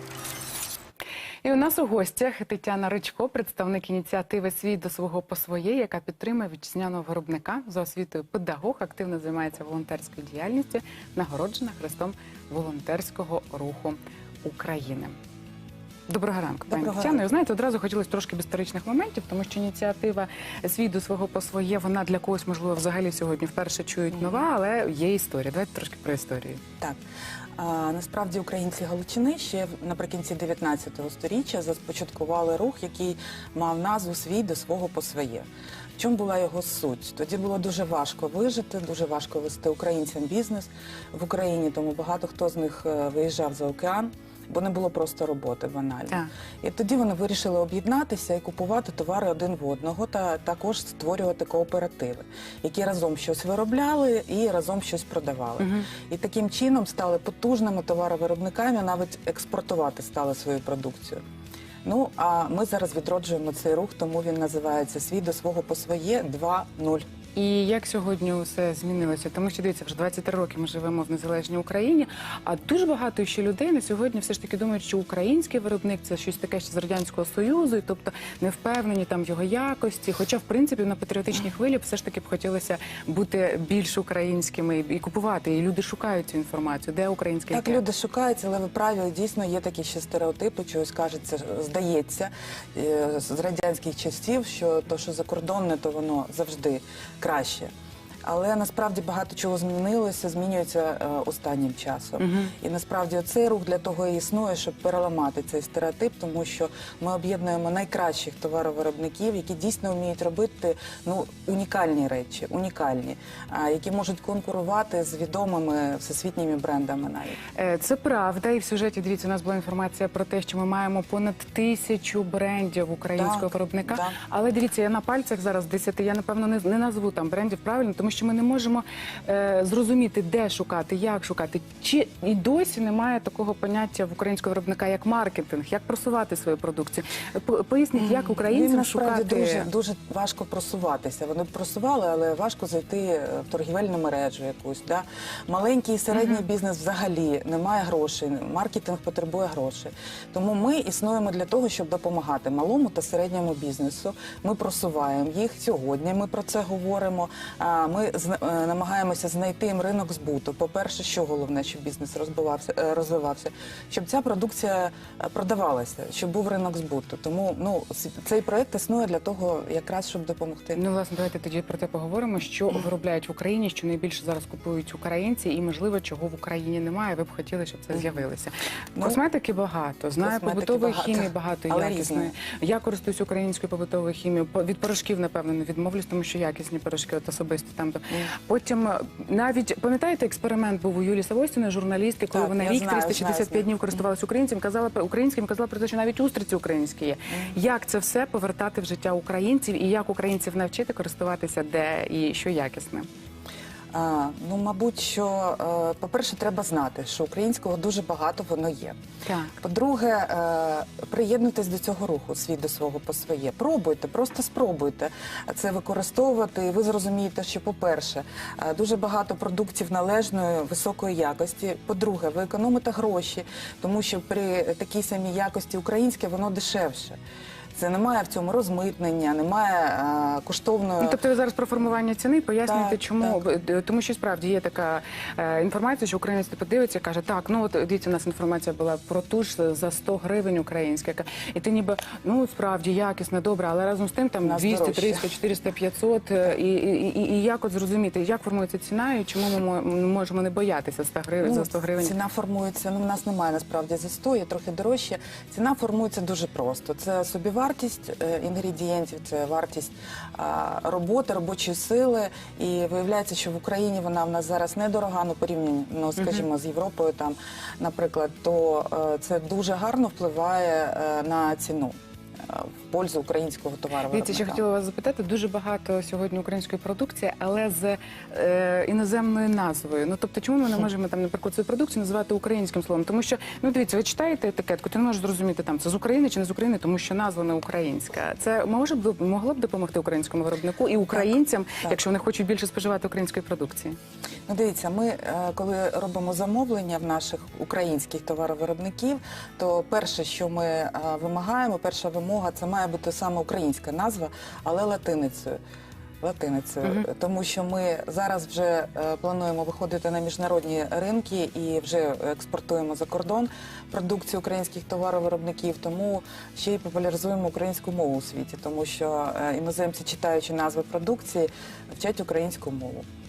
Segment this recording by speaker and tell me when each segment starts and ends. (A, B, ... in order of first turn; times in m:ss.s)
0:01.4-0:15.2 A
0:16.1-0:26.6 A
0:16.7-0:17.2 B
0:27.6-1:01.2 B
0:55.6-0:55.9 A
1:01.8-1:07.0 B
1:07.4-1:27.8 A
1:27.5-1:37.7 B
1:38.2-1:57.4 B
1:42.2-1:42.5 A
1:57.6-2:19.7 A
2:03.2-2:04.2 B
2:17.9-2:50.8 B
2:26.2-2:26.4 A
2:50.8-3:23.1 A
2:59.0-2:59.2 B
3:00.2-3:02.3 B
3:12.3-3:13.7 B
3:17.3-3:17.6 B
3:23.9-3:29.0 B
3:29.2-3:29.5 A
3:29.6-3:47.2 B
3:47.8-3:51.2 B
3:51.0-4:12.1 A
3:52.6-3:53.4 B
4:04.4-4:05.3 B
4:11.4-4:34.6 B
4:26.2-4:26.4 A
4:34.1-4:54.0 A
4:51.1-4:52.0 B
4:54.5-5:05.6 B
5:06.2-5:23.1 B